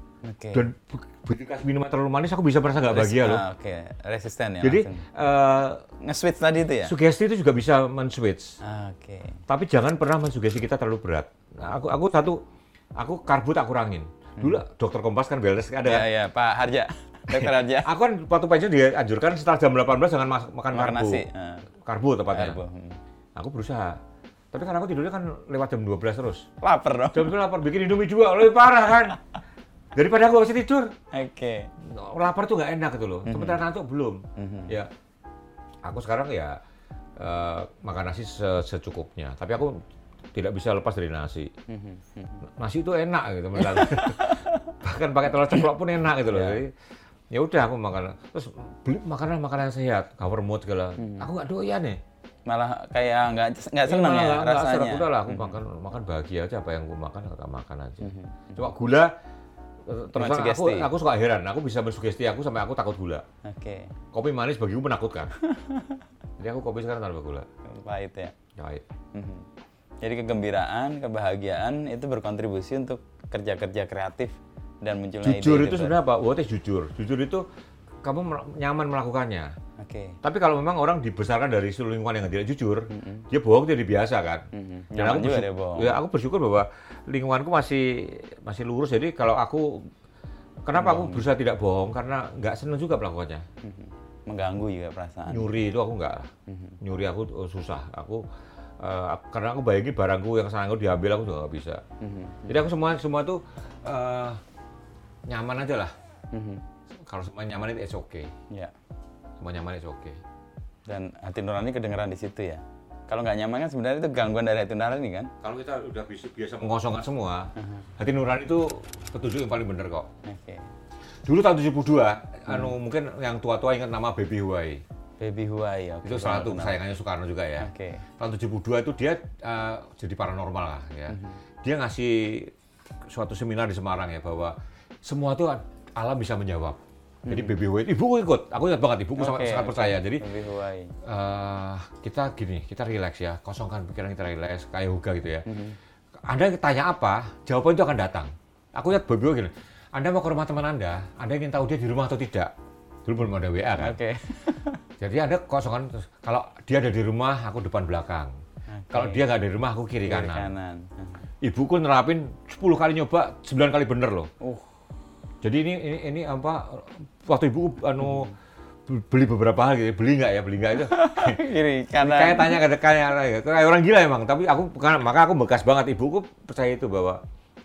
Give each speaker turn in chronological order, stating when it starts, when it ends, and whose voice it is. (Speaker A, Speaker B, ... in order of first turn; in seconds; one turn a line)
Speaker A: 0.2-0.7
Speaker B: 0.5-3.4
Speaker A: 2.9-5.0
Speaker B: 4.6-5.8
Speaker A: 6.0-6.9
Speaker B: 6.8-8.6
Speaker A: 8.6-9.4
Speaker B: 9.5-12.4
Speaker B: 13.0-16.1
Speaker A: 15.8-17.9
Speaker B: 17.3-21.2
Speaker A: 20.7-21.7
Speaker B: 21.8-22.6
Speaker A: 22.3-23.0
Speaker B: 23.3-24.0
Speaker B: 24.5-26.4
Speaker A: 26.6-27.4
Speaker B: 27.1-29.2
Speaker B: 29.9-30.9
Speaker A: 31.1-31.7
Speaker B: 31.8-34.9
Speaker A: 33.3-33.6
Speaker A: 34.4-34.8
Speaker B: 35.8-36.6
Speaker B: 37.2-39.8
Speaker B: 40.3-41.5
Speaker A: 41.7-42.4
Speaker B: 42.4-46.7
Speaker A: 43.6-44.7
Speaker A: 46.3-46.6
Speaker B: 47.3-52.0
Speaker A: 51.0-51.3
Speaker A: 52.5-55.6
Speaker B: 53.8-59.1
Speaker A: 58.0-58.6
Speaker B: 59.9-63.2
Speaker A: 60.1-60.9
Speaker A: 63.4-63.9
Speaker B: 64.1-65.3
Speaker A: 65.5-66.0
Speaker B: 66.4-67.5
Speaker A: 67.6-68.3
Speaker B: 68.6-68.8
Speaker A: 69.1-69.5
Speaker A: 70.0-76.0
Speaker B: 75.2-77.4
Speaker B: 78.0-79.5
Speaker A: 79.8-80.2
Speaker B: 80.2-89.9
Speaker A: 82.9-83.2
Speaker A: 84.5-86.0
Speaker B: 90.6-93.4
Speaker A: 90.7-91.3
Speaker A: 93.6-95.5
Speaker B: 95.3-98.2
Speaker A: 96.5-96.8
Speaker B: 98.8-101.8
Speaker A: 102.0-102.6
Speaker B: 102.5-104.4
Speaker B: 105.3-105.9
Speaker A: 106.3-106.6
Speaker B: 107.0-108.3
Speaker B: 109.4-110.2
Speaker A: 110.9-115.3
Speaker B: 115.4-120.1
Speaker A: 117.6-117.9
Speaker A: 120.2-120.7
Speaker B: 121.2-124.8
Speaker A: 122.5-122.7
Speaker A: 125.2-126.8
Speaker B: 126.0-132.5
Speaker A: 127.6-128.0
Speaker A: 131.1-131.4
Speaker B: 133.1-140.2
Speaker A: 137.2-137.5
Speaker A: 139.2-140.9
Speaker B: 141.0-145.4
Speaker A: 145.4-145.8
Speaker B: 146.3-152.5
Speaker B: 153.0-154.0
Speaker A: 153.8-154.8
Speaker B: 155.0-158.3
Speaker A: 158.7-159.2
Speaker B: 158.9-160.5
Speaker A: 160.0-161.3
Speaker B: 161.4-164.3
Speaker A: 164.4-164.7
Speaker B: 165.4-168.3
Speaker A: 168.0-168.3
Speaker B: 168.9-171.4
Speaker A: 170.7-172.6
Speaker B: 172.0-177.2